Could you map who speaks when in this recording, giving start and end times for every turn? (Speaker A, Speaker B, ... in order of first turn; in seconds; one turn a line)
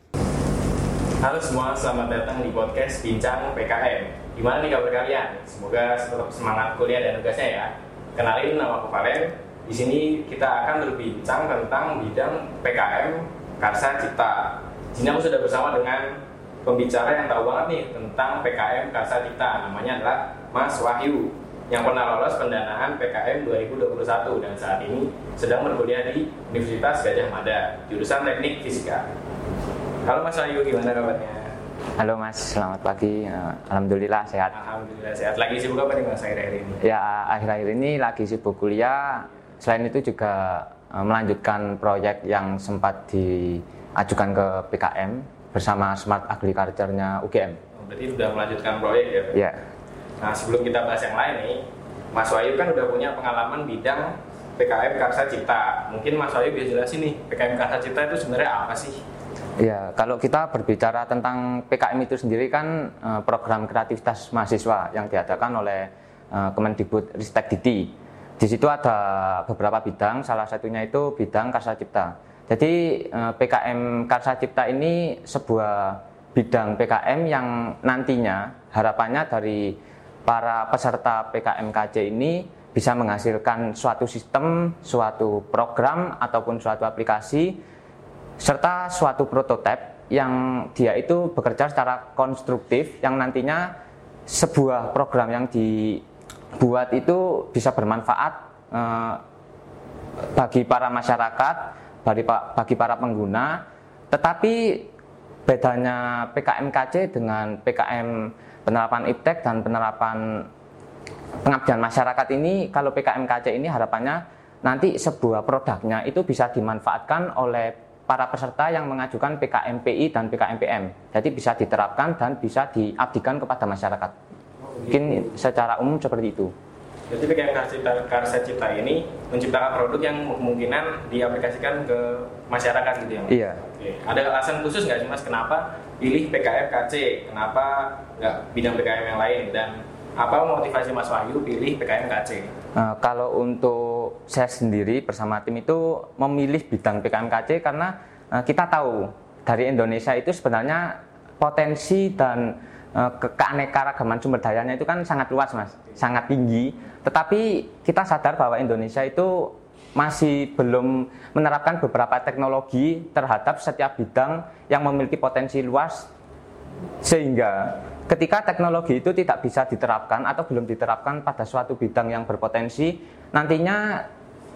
Speaker A: 1.2-29.1
Speaker A: 30.0-31.5
Speaker B: 32.0-34.5
Speaker A: 34.5-36.8
Speaker B: 36.8-47.6
Speaker A: 47.7-49.4
Speaker B: 49.3-49.6
Speaker A: 50.2-59.0
Speaker B: 59.6-87.6
Speaker B: 88.4-93.7
Speaker B: 94.3-96.0
Speaker B: 96.5-99.2
Speaker B: 100.3-104.9
Speaker B: 105.5-110.5
Speaker B: 111.4-124.1
Speaker A: 124.7-125.3
Speaker B: 124.8-126.5
Speaker A: 127.1-142.5
Speaker B: 133.3-133.6
Speaker B: 142.8-166.1
Speaker B: 167.0-174.1